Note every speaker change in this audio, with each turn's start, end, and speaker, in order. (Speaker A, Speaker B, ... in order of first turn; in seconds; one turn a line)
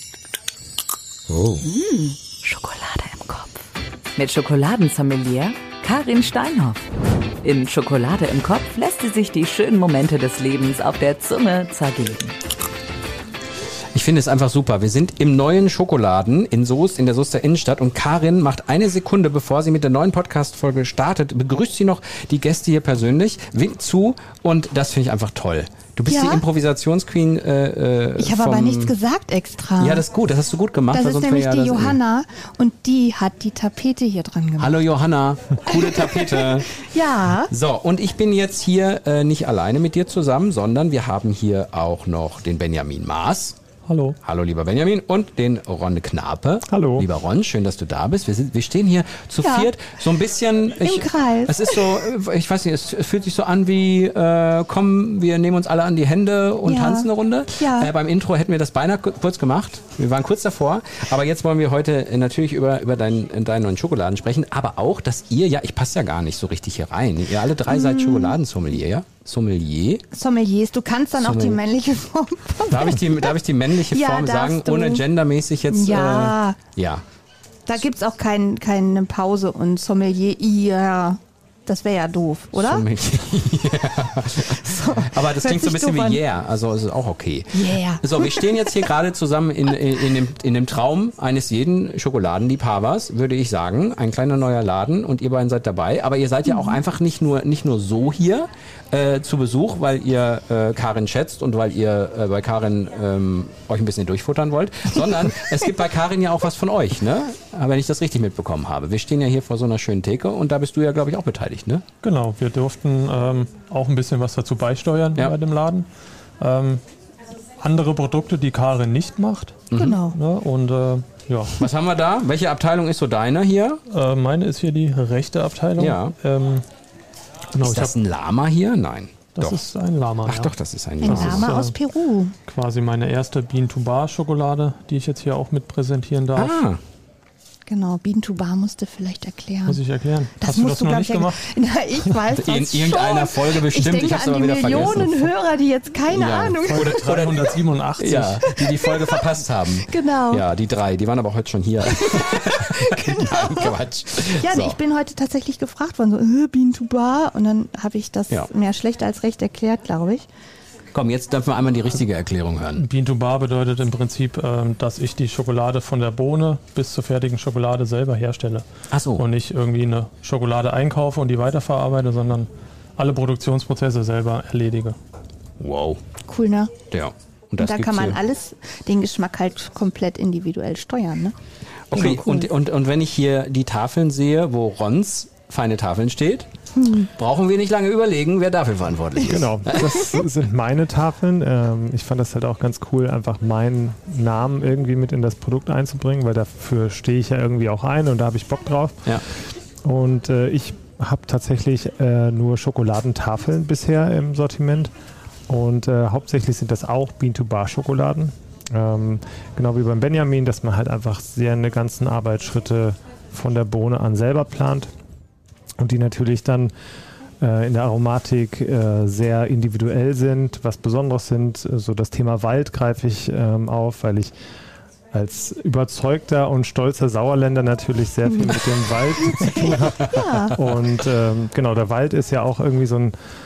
Speaker A: 1.3-1.6
Speaker B: 1.6-3.6
Speaker B: 4.1-6.9
Speaker B: 7.4-12.4
Speaker A: 13.9-28.9
Speaker C: 26.1-26.4
Speaker C: 28.2-30.0
Speaker A: 29.8-32.0
Speaker C: 30.9-34.8
Speaker A: 34.6-36.8
Speaker C: 35.7-37.5
Speaker A: 37.5-43.6
Speaker D: 43.9-44.2
Speaker A: 44.2-70.0
Speaker E: 46.7-47.0
Speaker C: 49.4-49.7
Speaker C: 50.8-51.8
Speaker C: 56.6-57.9
Speaker C: 67.7-68.4
Speaker C: 70.1-75.0
Speaker A: 71.2-71.6
Speaker A: 72.7-77.0
Speaker C: 75.7-76.6
Speaker C: 77.7-82.8
Speaker A: 82.5-111.8
Speaker C: 84.4-86.2
Speaker C: 87.5-88.9
Speaker C: 96.5-96.8
Speaker D: 112.0-115.9
Speaker D: 116.4-116.8
Speaker D: 117.6-121.7
Speaker A: 119.7-120.0
Speaker C: 119.7-120.2
Speaker A: 121.6-123.8
Speaker D: 123.9-126.7
Speaker A: 125.8-126.1
Speaker D: 127.5-127.9
Speaker A: 127.6-129.6
Speaker D: 129.3-131.7
Speaker A: 130.2-131.5
Speaker C: 131.0-132.3
Speaker D: 132.5-136.6
Speaker A: 136.3-136.8
Speaker C: 137.7-139.8
Speaker D: 139.7-141.4
Speaker C: 140.4-147.0
Speaker A: 142.3-145.2
Speaker A: 146.1-154.8
Speaker D: 146.6-148.4
Speaker C: 148.4-149.3
Speaker C: 149.8-150.4
Speaker C: 151.9-153.7
Speaker C: 154.3-160.3
Speaker A: 160.9-162.8
Speaker D: 162.7-175.0
Speaker A: 168.9-169.2
Speaker A: 175.6-176.0
Speaker C: 176.2-176.7
Speaker A: 176.9-178.2
Speaker C: 177.6-181.3
Speaker A: 181.9-186.5
Speaker C: 181.9-182.5
Speaker C: 186.8-187.1
Speaker A: 187.1-190.0
Speaker E: 189.2-199.1
Speaker E: 199.8-204.9
Speaker E: 205.5-214.9
Speaker E: 215.8-216.7
Speaker E: 217.4-224.3
Speaker E: 225.1-233.1
Speaker C: 228.3-228.6
Speaker C: 229.3-230.6